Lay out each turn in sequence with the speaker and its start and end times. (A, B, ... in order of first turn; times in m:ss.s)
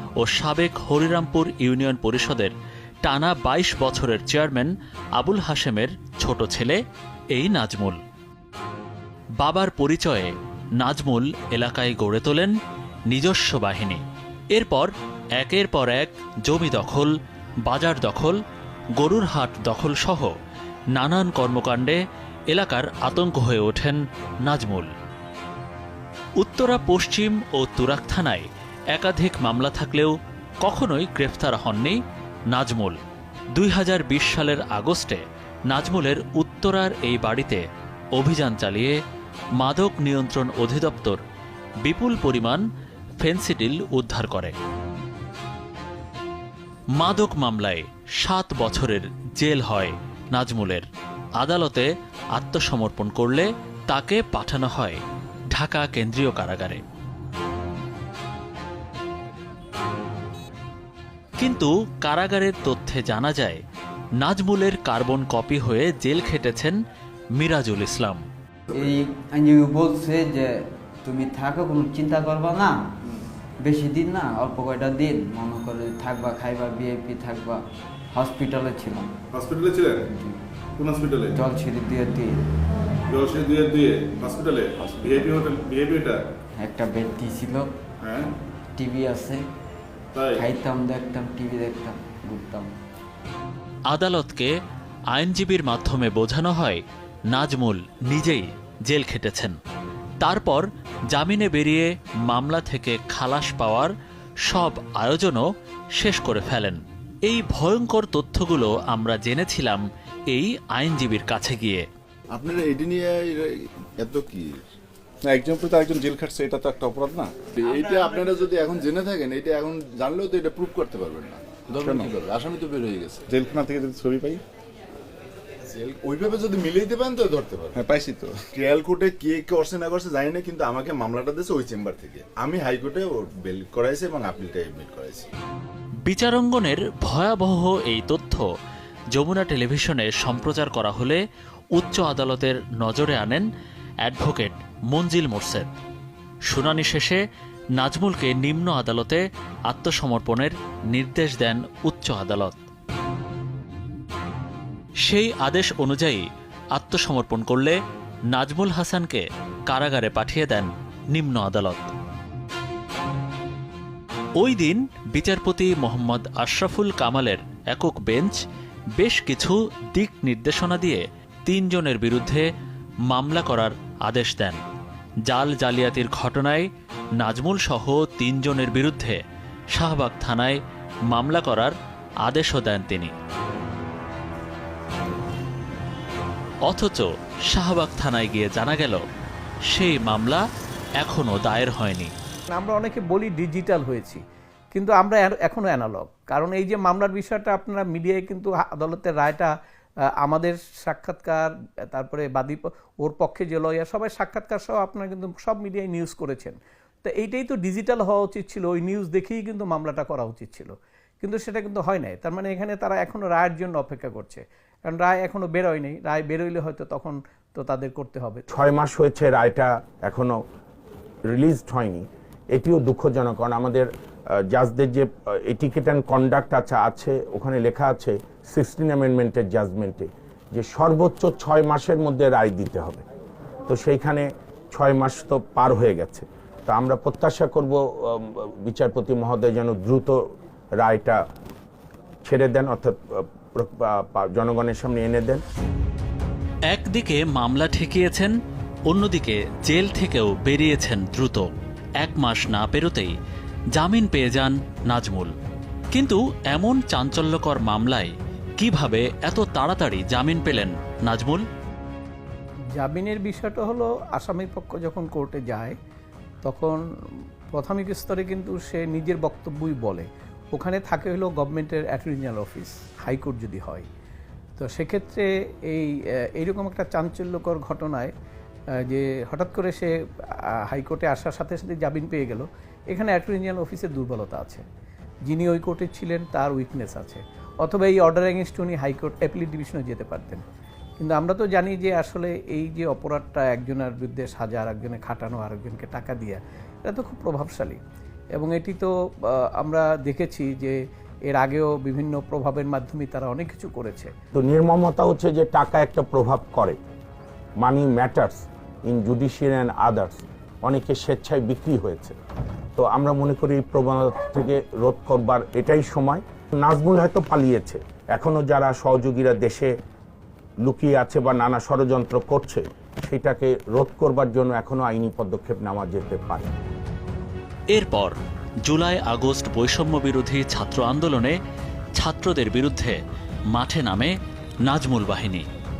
0:00.2-0:02.5 A
0:03.0-0:06.8 A
0:07.3-0:08.0 A
0:09.4-0:12.5 A
0:13.1-0:17.1 A
0:17.6-0:18.4 A
0:19.0-0:20.3 A
0:21.0-0:22.0 A
0:22.5-0:24.9 A
0:26.4-0:32.0 A
0:32.5-0:33.0 A
0:33.5-0:37.6 A
0:38.2-0:39.0 A
0:39.6-0:41.2 A
0:41.8-0:42.6 A
0:43.2-0:44.6 A
0:47.0-0:50.9 A
0:51.4-0:55.0 A
0:55.6-0:56.8 A
1:01.4-1:03.6 A
1:04.2-1:06.8 A
1:07.4-1:08.2 A
1:08.7-1:12.8 B
1:13.6-1:19.1 B
1:19.3-1:20.1 C
1:20.1-1:20.4 B
1:20.8-1:21.4 C
1:21.4-1:22.5 B
1:23.1-1:26.2 C
1:24.8-1:25.5 B
1:26.6-1:27.8 B
1:28.0-1:28.3 C
1:28.8-1:29.5 B
1:30.1-1:30.4 C
1:30.3-1:32.7 B
1:33.9-1:34.5 A
1:35.1-1:39.6 A
1:40.2-1:43.9 A
1:44.5-1:45.4 A
1:46.0-1:51.9 A
1:52.3-1:54.6 D
1:55.3-1:57.4 C
1:57.4-2:03.2 D
2:01.8-2:02.1 C
2:03.3-2:04.4 C
2:05.7-2:07.8 D
2:07.7-2:08.5 C
2:08.6-2:15.3 D
2:16.1-2:18.4 A
2:19.1-2:21.2 A
2:21.8-2:23.5 A
2:24.0-2:25.7 A
2:26.5-2:27.2 A
2:27.8-2:32.6 A
2:35.1-2:37.8 A
2:38.3-2:41.9 A
2:44.4-2:48.4 A
2:49.0-2:52.4 A
2:53.1-2:54.6 A
2:55.3-2:59.2 A
2:59.8-3:01.7 A
3:02.2-3:03.1 A
3:06.6-3:09.0 A
3:09.7-3:10.4 A
3:11.0-3:12.1 A
3:12.5-3:14.2 E
3:14.7-3:19.5 E
3:20.2-3:38.5 E
3:38.5-3:40.4 F
3:41.3-3:53.0 F
3:53.7-4:01.2 F
4:02.2-4:05.4 F
4:06.7-4:08.4 A
4:08.9-4:11.5 A
4:12.0-4:13.2 A
4:13.8-4:15.4 A
4:15.9-4:21.4 A
4:22.8-4:25.8 E
4:26.4-4:26.8 E
4:27.5-4:33.9 E
4:34.6-4:38.1 E
4:38.8-4:39.9 E
4:40.7-4:44.6 E
4:45.3-4:50.4 E
4:51.0-4:57.8 E
4:58.4-5:04.1 E
5:04.3-5:06.8 F
5:07.6-5:12.2 F
5:12.8-5:19.7 F
5:20.6-5:26.5 F
5:27.7-5:31.4 A
5:32.0-5:33.0 A
5:33.5-5:35.5 A